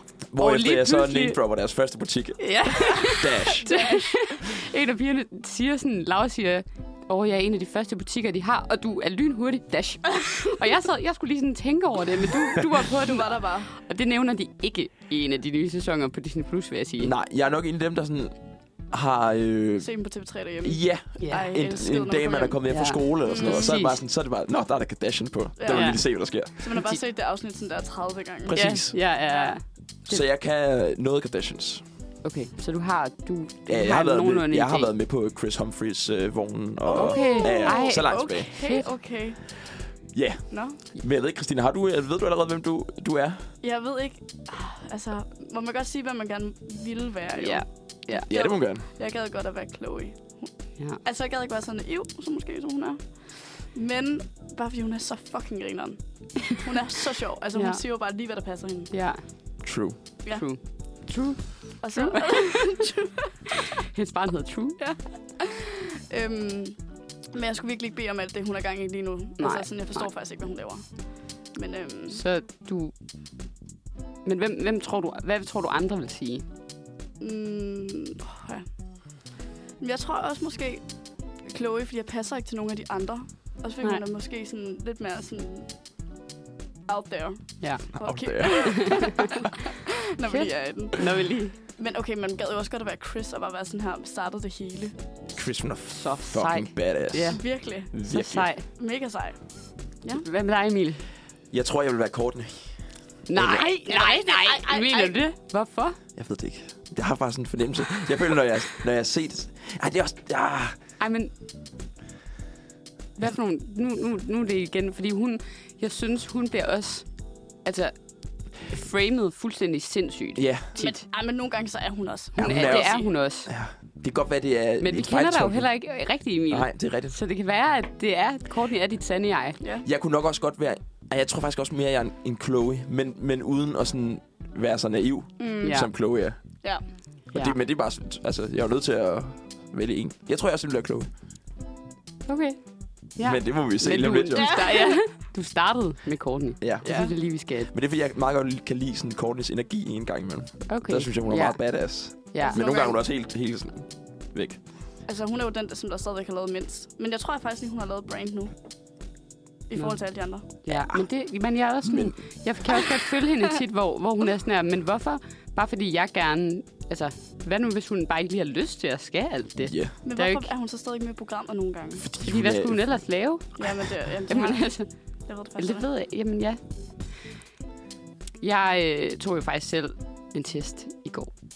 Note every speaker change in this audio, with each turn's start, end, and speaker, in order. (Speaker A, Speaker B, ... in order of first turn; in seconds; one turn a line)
Speaker A: 0.3-3.7
Speaker B: 0.3-1.4
Speaker B: 2.4-17.1
Speaker C: 2.7-4.3
Speaker C: 13.0-13.7
Speaker A: 17.0-19.9
Speaker C: 19.8-23.8
Speaker A: 20.6-26.5
Speaker B: 21.2-21.5
Speaker B: 22.7-24.0
Speaker C: 25.6-28.6
Speaker B: 25.7-27.0
Speaker A: 28.4-29.0
Speaker B: 28.5-30.2
Speaker C: 29.3-29.6
Speaker A: 30.1-31.8
Speaker B: 32.2-34.9
Speaker A: 33.7-38.5
Speaker C: 36.9-39.9
Speaker B: 37.0-38.9
Speaker A: 40.1-43.5
Speaker C: 40.5-40.8
Speaker C: 43.6-58.9
Speaker B: 47.4-48.3
Speaker A: 48.3-48.9
Speaker B: 57.5-57.8
Speaker B: 58.9-59.2
Speaker A: 59.6-60.0
Speaker B: 60.3-62.8
Speaker C: 61.8-63.3
Speaker B: 63.9-64.8
Speaker C: 64.8-66.8
Speaker C: 67.3-72.2
Speaker B: 69.4-70.1
Speaker B: 72.1-72.9
Speaker B: 74.2-76.4
Speaker C: 77.2-78.7
Speaker C: 79.8-85.7
Speaker C: 86.9-91.1
Speaker B: 87.6-89.3
Speaker A: 87.9-89.1
Speaker B: 90.2-91.6
Speaker C: 91.6-95.0
Speaker A: 95.3-98.5
Speaker B: 95.9-98.6
Speaker C: 97.3-97.9
Speaker C: 98.7-99.4
Speaker B: 100.2-101.0
Speaker A: 101.5-103.7
Speaker B: 103.3-106.0
Speaker C: 103.7-105.2
Speaker A: 106.2-110.8
Speaker B: 111.0-111.3
Speaker B: 113.2-121.0
Speaker A: 120.3-120.7
Speaker C: 120.8-123.1
Speaker B: 122.3-123.5
Speaker A: 122.4-125.8
Speaker B: 124.8-129.6
Speaker A: 126.5-127.1
Speaker C: 129.6-129.8
Speaker A: 129.8-136.4
Speaker C: 135.4-135.8
Speaker B: 135.6-135.9
Speaker A: 137.3-141.1
Speaker B: 142.3-147.7
Speaker A: 143.2-144.6
Speaker C: 144.3-145.0
Speaker A: 146.6-154.6
Speaker C: 146.8-147.1
Speaker B: 150.7-152.6
Speaker C: 152.4-153.0
Speaker C: 155.1-158.5
Speaker C: 159.7-160.4
Speaker B: 159.7-170.5
Speaker A: 161.8-162.2
Speaker A: 169.6-169.9
Speaker C: 170.0-172.1
Speaker A: 172.0-173.1
Speaker B: 172.2-174.9
Speaker C: 173.5-175.9
Speaker B: 175.6-176.6
Speaker B: 178.4-181.3